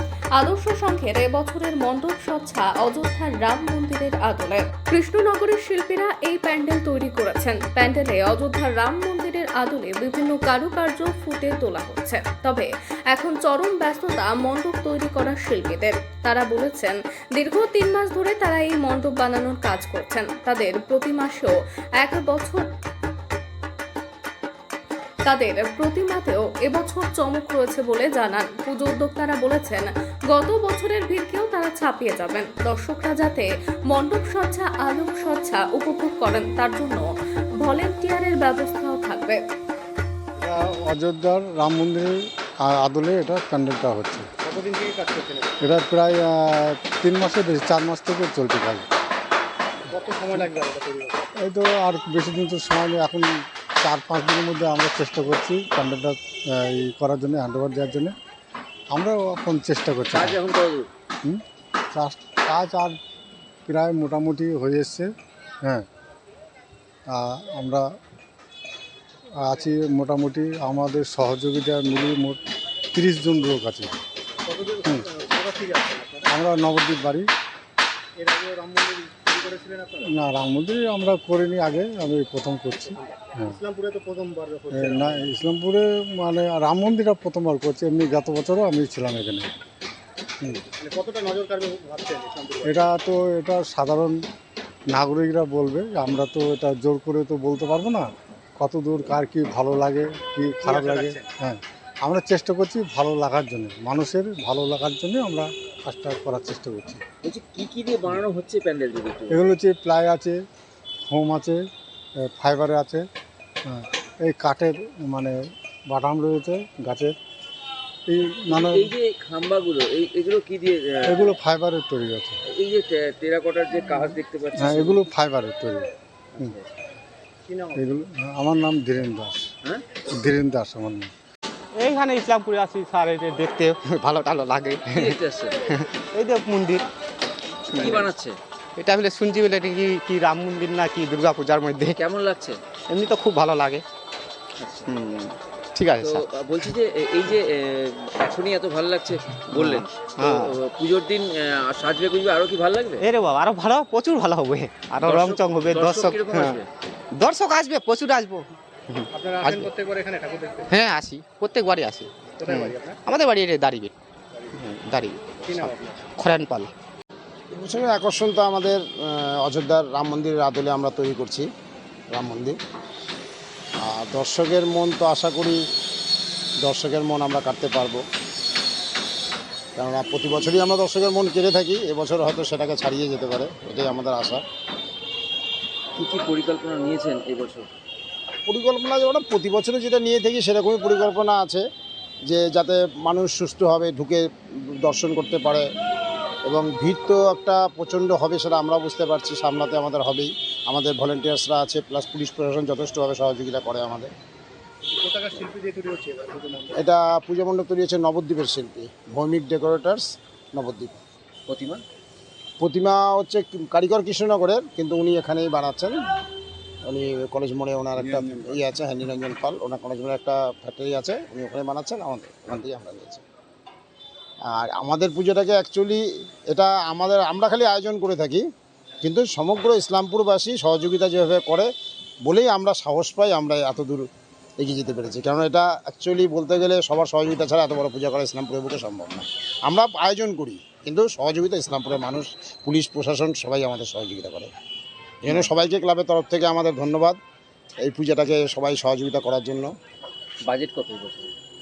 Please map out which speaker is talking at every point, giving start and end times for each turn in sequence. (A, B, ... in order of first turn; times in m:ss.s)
0:00.4-0:22.7 A
0:25.3-0:37.1 A
0:37.6-0:39.4 A
0:40.4-0:42.1 B
0:42.6-0:44.3 B
0:44.4-0:45.5 C
0:45.6-0:48.8 B
0:49.9-0:51.3 C
0:51.4-0:53.3 B
0:53.8-0:58.1 B
0:58.9-1:00.4 B
1:00.1-1:00.9 D
1:01.9-1:03.0 B
1:03.6-1:05.1 B
1:07.1-1:07.8 B
1:09.4-1:12.4 B
1:12.9-1:13.9 B
1:14.5-1:16.3 C
1:16.3-1:17.3 B
1:18.2-1:20.1 C
1:20.1-1:23.6 B
1:22.9-1:25.3 C
1:24.7-1:29.5 B
1:30.7-1:32.9 C
1:32.6-1:34.2 B
1:34.9-1:38.1 B
1:38.6-1:47.0 B
1:40.6-1:41.2 C
1:47.2-1:49.4 D
1:49.3-1:50.4 B
1:51.1-1:51.6 B
1:52.3-1:53.0 B
1:53.7-1:55.3 B
1:55.9-1:57.1 B
1:58.1-1:58.9 B
1:58.5-2:01.4 D
2:01.0-2:02.4 B
2:02.5-2:05.1 D
2:04.5-2:06.5 B
2:06.4-2:06.6 D
2:07.5-2:07.8 C
2:07.7-2:09.4 B
2:10.1-2:11.1 B
2:11.7-2:15.2 E
2:15.0-2:15.5 D
2:15.7-2:16.8 E
2:17.7-2:18.1 E
2:17.8-2:18.4 D
2:18.8-2:22.0 E
2:22.0-2:22.6 D
2:22.9-2:23.8 E
2:24.6-2:24.9 D
2:24.9-2:26.7 E
2:26.0-2:33.1 D
2:29.5-2:30.5 E
2:33.0-2:36.6 E
2:35.0-2:36.6 D
2:37.1-2:39.7 E
2:39.2-2:40.7 C
2:40.7-2:43.9 E
2:42.4-2:43.0 C
2:44.5-2:46.7 E
2:45.4-2:46.1 C
2:47.5-2:51.5 F
2:52.1-2:52.6 F
2:53.8-2:55.6 F
2:56.6-2:58.0 F
2:59.8-3:04.4 F
3:06.0-3:07.7 D
3:08.5-3:11.6 F
3:12.3-3:15.6 F
3:16.5-3:24.1 F
3:24.9-3:26.7 C
3:26.8-3:31.0 F
3:31.5-3:31.8 D
3:32.6-3:36.0 F
3:36.9-3:43.2 F
3:38.0-3:38.5 D
3:44.5-3:48.4 F
3:49.0-3:51.7 F
3:52.2-3:54.1 F
3:54.6-4:04.5 F
4:05.2-4:07.2 F
4:07.8-4:09.7 F
4:10.5-4:11.3 D